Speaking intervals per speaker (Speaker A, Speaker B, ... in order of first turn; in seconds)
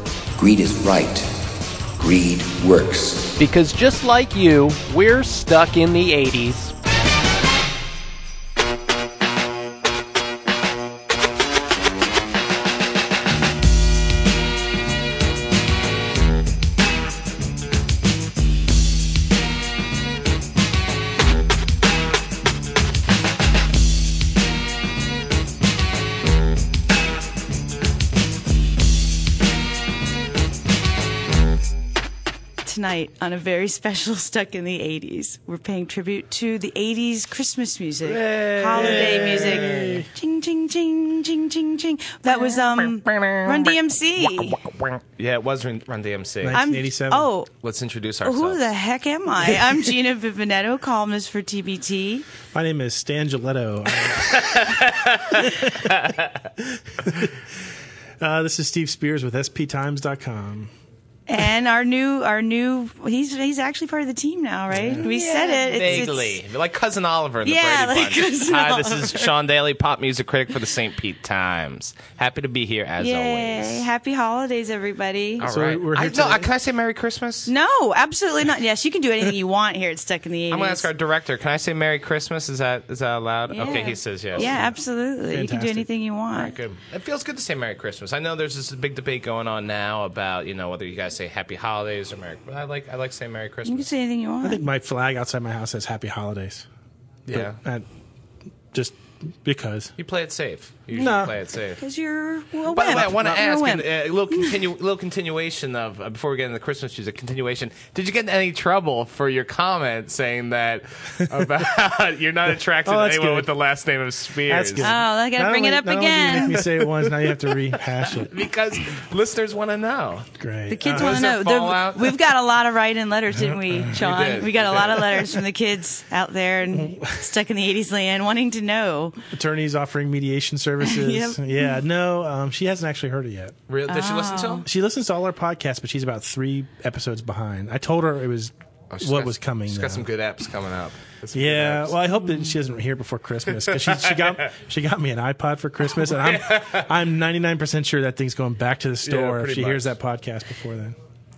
Speaker A: 0.4-1.3, 2.0-3.4
Speaker B: 3.4-6.8
Speaker C: 32.6-44.6, 46.5-47.5, 48.2-52.2, 61.3-66.4, 67.4-69.3, 73.0-75.5, 77.5-80.9, 83.5-86.5, 93.7-94.6, 101.8-104.5, 114.8-116.6, 120.7-129.2, 130.8-131.8, 133.9-134.7
Speaker D: 38.0-40.0, 42.3-46.6, 47.6-48.6, 54.2-56.4, 65.0-73.9, 75.4-77.5, 80.5-84.6, 86.3-93.9, 97.3-97.6, 100.0-101.8, 102.7-114.9, 116.3-120.3, 120.8-122.2, 123.9-125.4, 133.7-134.7, 138.9-142.0, 143.7-144.5, 145.9-146.9, 149.1-149.9
Speaker E: 38.7-40.1, 46.4-47.3, 52.5-54.8, 55.3-55.9, 57.0-57.3, 58.2-60.7, 64.7-65.1, 75.4-76.5, 84.4-84.7, 85.3-85.9, 94.4-96.7, 97.3-97.9, 98.7-99.9, 100.9-101.3, 102.8-103.4, 112.8-113.5, 114.5-118.3, 120.4-121.3, 123.4-123.9, 126.7-127.2, 129.3-133.6, 134.6-140.1, 141.3-151.0